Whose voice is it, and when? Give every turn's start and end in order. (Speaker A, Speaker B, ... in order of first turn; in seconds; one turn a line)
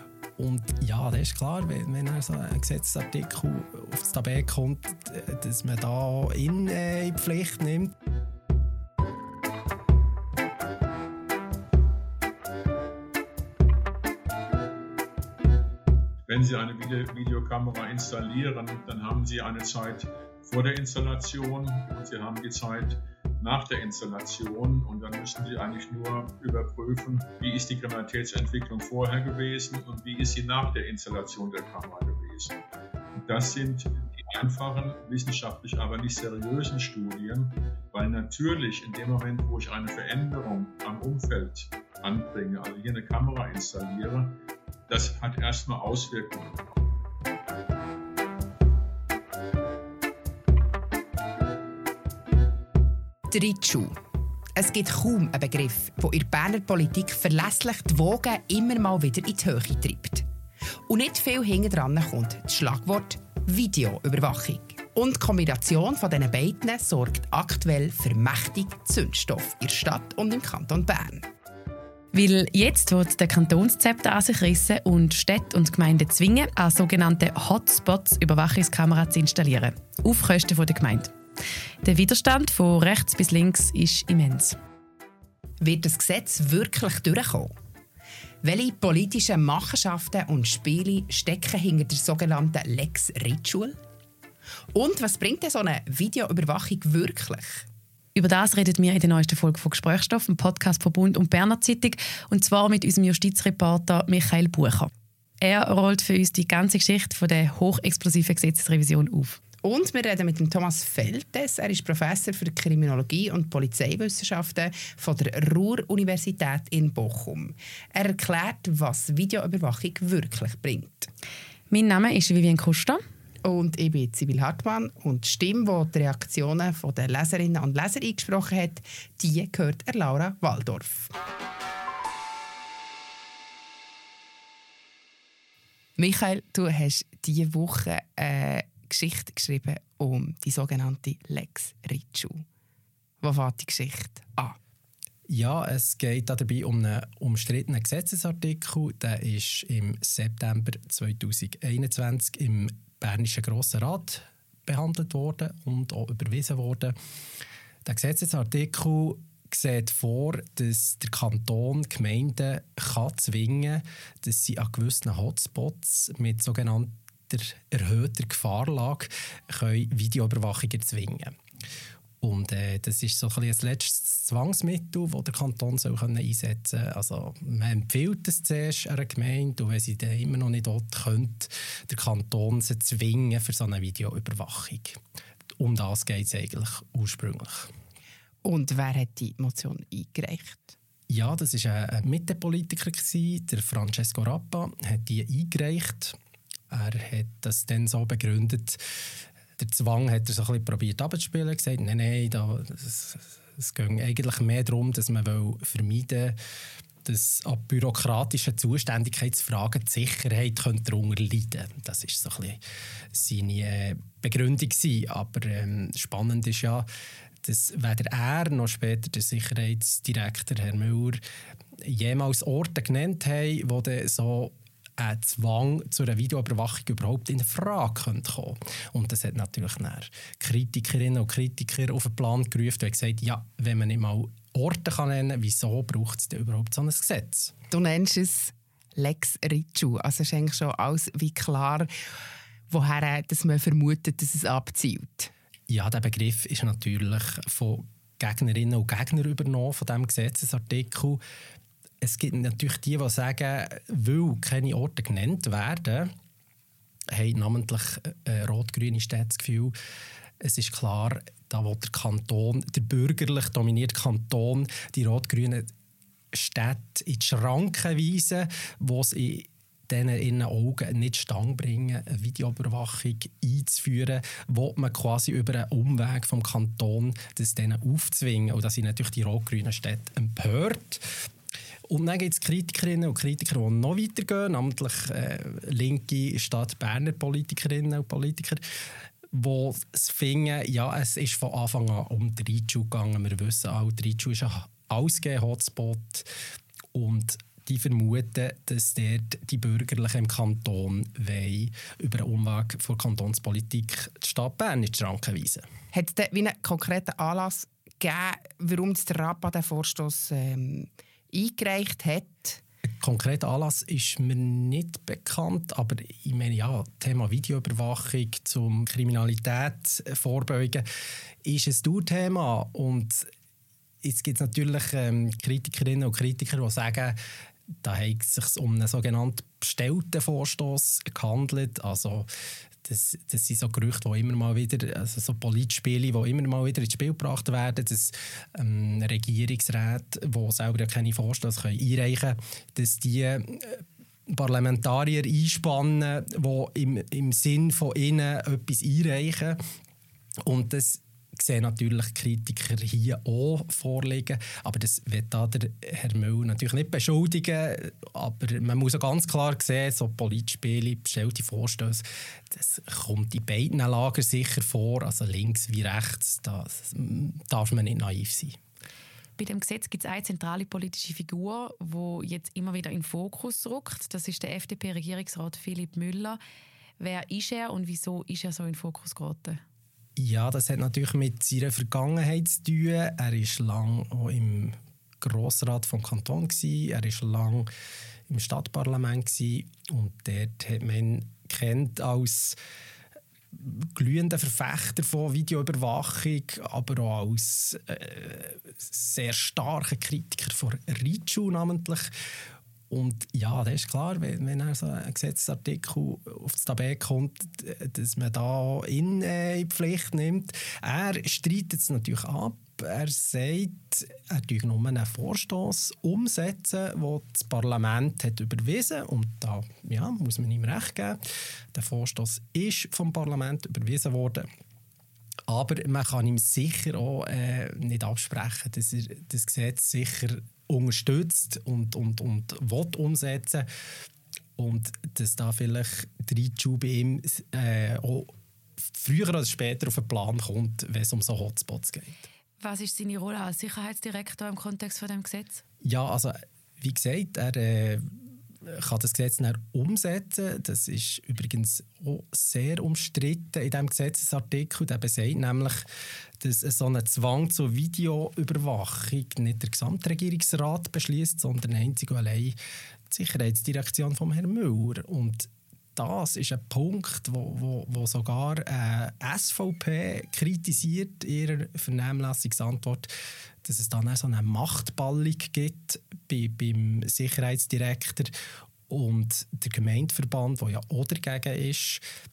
Speaker A: 0.4-8.0
Speaker B: 16.3-32.6
Speaker B: 33.2-46.7
Speaker C: 53.3-53.9
Speaker C: 54.5-60.2
Speaker C: 60.9-71.3
Speaker D: 72.1-81.1
Speaker D: 81.8-84.6
Speaker C: 85.6-87.5
Speaker C: 88.4-93.8
Speaker C: 94.8-97.7
Speaker D: 98.1-104.9
Speaker D: 105.4-109.4
Speaker C: 109.6-121.1
Speaker D: 121.7-123.0
Speaker C: 123.4-131.1
Speaker C: 136.0-142.4
Speaker C: 143.2-144.6
Speaker A: 145.3-156.9
Speaker A: 157.8-171.3
Speaker A: 172.2-185.0
Speaker A: 185.6-187.7
Speaker C: 188.4-190.8
Speaker A: 191.1-196.2
Speaker A: 196.7-206.4
Speaker A: 207.0-212.6
Speaker A: 213.1-216.9
Speaker A: 217.4-221.2
Speaker A: 221.8-237.6
Speaker C: 237.7-241.9
Speaker C: 242.7-245.3
Speaker A: 245.7-251.2
Speaker A: 252.0-256.1
Speaker A: 257.1-259.7
Speaker A: 260.4-265.7
Speaker A: 266.3-281.1
Speaker A: 281.9-288.6
Speaker A: 289.3-296.3
Speaker A: 296.9-305.7
Speaker C: 305.9-312.6
Speaker A: 313.0-320.9
Speaker A: 321.4-323.3
Speaker A: 324.0-327.2
Speaker A: 327.8-332.3
Speaker A: 332.8-349.6
Speaker A: 350.4-368.6
Speaker D: 369.4-376.4
Speaker D: 377.0-379.6
Speaker A: 380.2-387.7
Speaker A: 388.3-392.6
Speaker A: 393.5-402.1
Speaker A: 402.9-421.2
Speaker A: 421.7-424.5
Speaker A: 425.5-433.6
Speaker A: 434.6-438.3
Speaker A: 438.9-442.2
Speaker D: 442.6-445.6
Speaker A: 445.8-448.1
Speaker A: 448.6-455.9
Speaker A: 456.4-462.6
Speaker A: 463.1-473.1
Speaker A: 473.6-478.3
Speaker A: 478.9-482.0